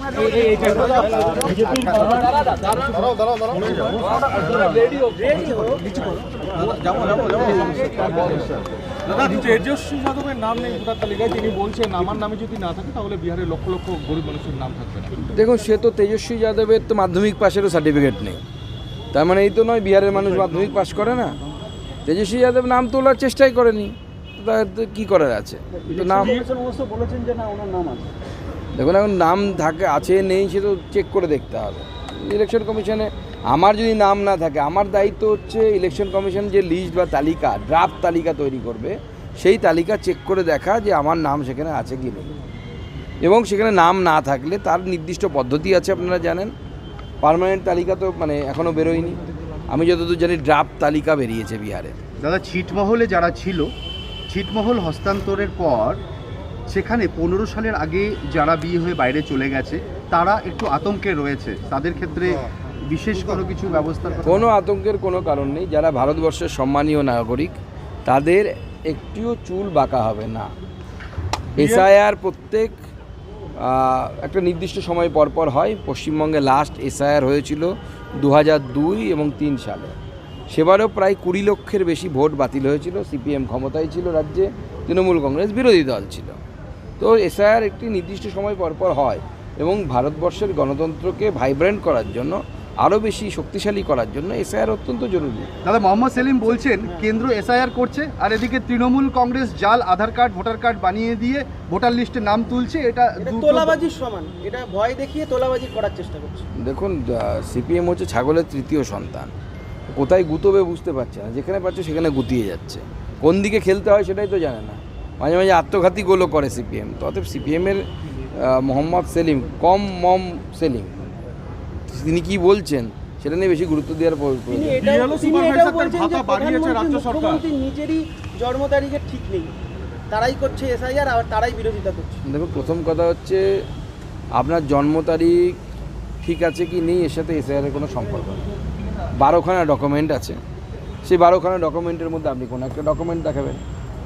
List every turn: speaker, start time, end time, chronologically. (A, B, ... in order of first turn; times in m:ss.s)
0:00.2-0:04.9 A
0:01.5-0:02.1 B
0:04.6-0:06.0 C
0:05.8-0:15.2 A
0:15.3-0:18.4 D
0:19.1-0:21.4 D
0:22.1-0:26.4 D
0:25.9-0:28.1 A
0:28.8-0:42.3 D
0:43.2-0:46.5 D
0:47.2-0:52.0 D
0:52.2-0:53.7 B
0:54.3-0:56.0 B
0:56.7-1:04.5 B
1:04.3-1:10.5 D
1:11.6-1:11.9 A
1:11.6-1:12.8 D
1:13.6-1:20.0 D
1:20.5-1:26.4 D
1:27.0-1:35.5 D
1:35.6-1:43.8 B
1:43.2-1:46.5 C
1:46.6-1:49.3 D
1:49.9-1:57.8 D
1:58.4-2:01.1 D
2:01.9-2:04.8 D
2:04.5-2:09.5 C
2:04.8-2:07.4 A
2:10.1-2:12.2 C
2:12.3-2:13.6 D
2:14.4-2:15.6 D
2:16.2-2:18.4 D
2:19.2-2:20.4 D
2:21.0-2:23.6 D